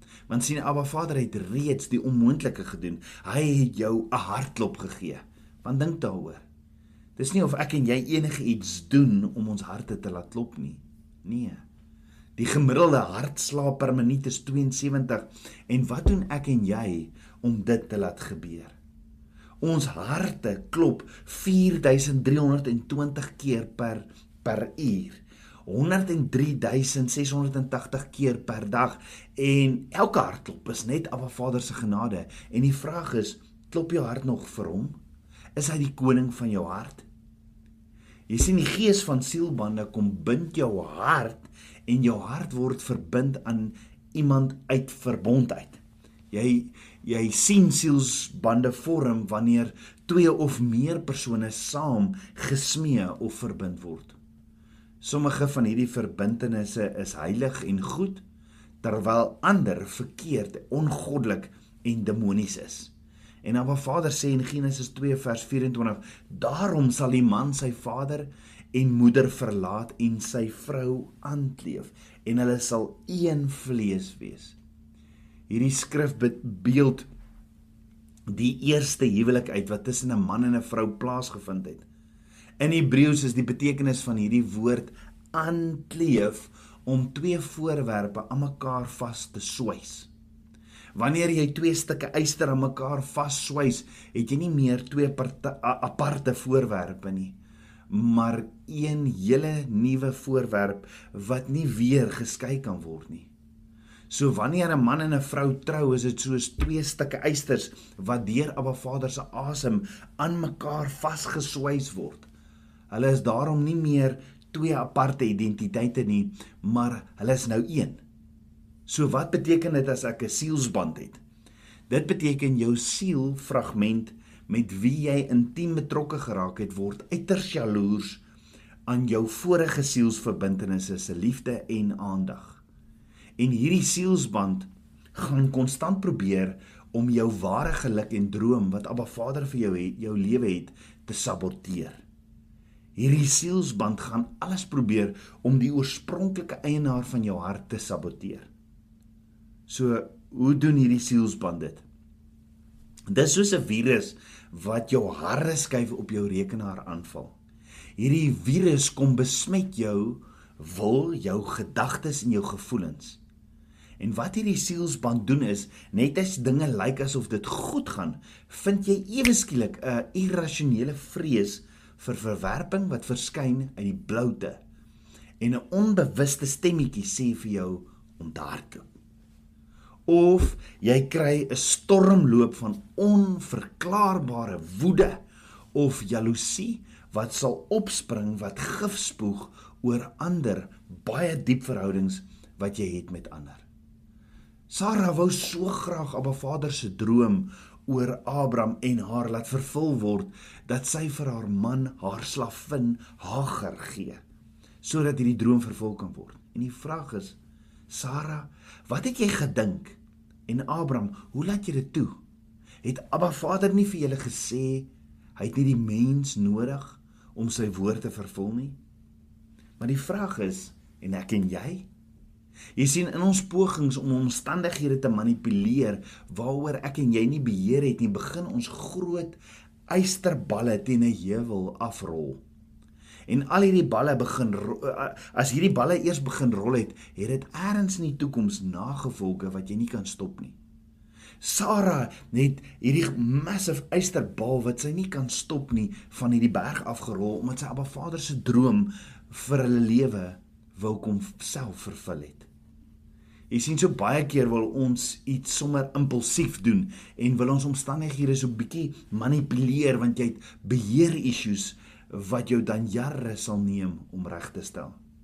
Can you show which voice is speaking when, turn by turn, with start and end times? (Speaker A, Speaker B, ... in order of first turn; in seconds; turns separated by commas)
Speaker A: 0.3-6.4, Speaker A: 7.2-11.6, Speaker A: 12.4-18.8, Speaker A: 19.6-35.0, Speaker A: 35.5-37.1, Speaker A: 38.3-54.2, Speaker A: 55.0-58.2, Speaker A: 58.8-74.6, Speaker A: 75.5-77.1, Speaker A: 78.3-81.9, Speaker A: 82.6-90.1, Speaker A: 91.0-97.4, Speaker A: 97.9-103.3, Speaker A: 104.1-112.3, Speaker A: 112.9-118.0, Speaker A: 118.9-121.2, Speaker A: 121.9-128.2, Speaker A: 128.9-132.6, Speaker A: 133.4-142.0, Speaker A: 143.0-148.5, Speaker A: 149.7-151.8, Speaker A: 153.1-157.4, Speaker A: 158.0-163.2, Speaker A: 164.0-174.6, Speaker A: 175.4-178.9, Speaker A: 180.1-185.2, Speaker A: 185.7-193.7, Speaker A: 194.7-204.2, Speaker A: 204.8-207.4, Speaker A: 207.9-212.2, Speaker A: 212.8-218.8, Speaker A: 219.8-221.9, Speaker A: 222.8-229.4, Speaker A: 229.9-232.4, Speaker A: 233.3-240.6, Speaker A: 241.4-252.5, Speaker A: 253.5-265.0